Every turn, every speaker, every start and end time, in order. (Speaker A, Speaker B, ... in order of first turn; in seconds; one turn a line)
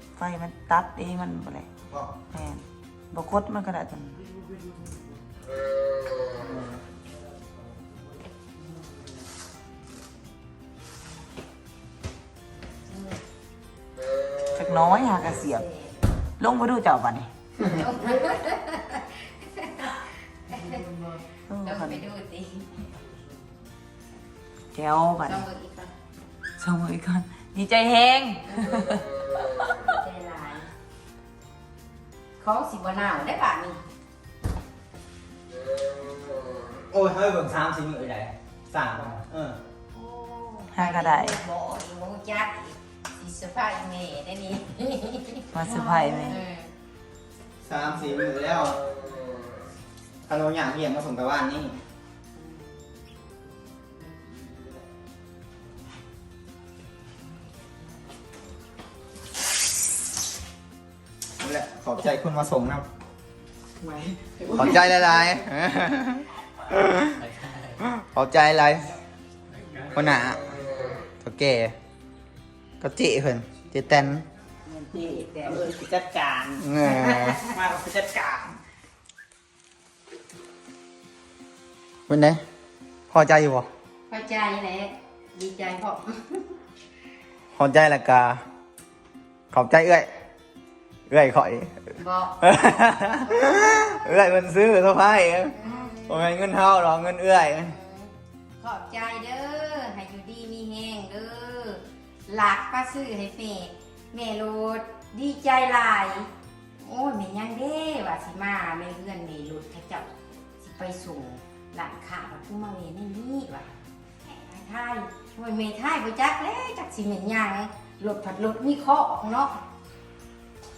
Speaker A: 0.2-1.7
Speaker B: 1.9-2.1
Speaker A: 2.3-4.2
Speaker B: 6.3-6.8
Speaker C: 12.9-13.2
Speaker A: 14.5-15.7
Speaker C: 15.6-16.0
Speaker A: 16.4-17.3
Speaker C: 17.6-20.8
Speaker A: 20.6-22.0
Speaker C: 21.6-22.8
Speaker A: 24.7-25.4
Speaker C: 25.2-25.9
Speaker A: 26.6-29.0
Speaker C: 29.8-30.7
Speaker C: 32.4-33.8
Speaker B: 36.9-39.6
Speaker C: 39.9-46.7
Speaker A: 40.7-41.4
Speaker A: 45.5-46.4
Speaker B: 47.6-48.8
Speaker B: 50.3-51.8
Speaker B: 61.4-62.8
Speaker A: 64.2-64.7
Speaker B: 64.5-68.9
Speaker B: 69.9-70.6
Speaker B: 71.2-71.7
Speaker B: 72.8-74.2
Speaker A: 74.7-78.5
Speaker C: 75.0-75.7
Speaker B: 76.6-77.4
Speaker C: 76.8-77.4
Speaker B: 82.1-82.4
Speaker B: 83.1-83.7
Speaker C: 84.1-86.6
Speaker B: 87.5-88.4
Speaker B: 89.5-90.1
Speaker B: 91.1-91.8
Speaker C: 92.0-92.5
Speaker B: 92.4-97.7
Speaker C: 95.5-96.3
Speaker C: 97.7-106.3
Speaker C: 106.8-110.1
Speaker C: 110.6-113.7
Speaker C: 114.2-119.6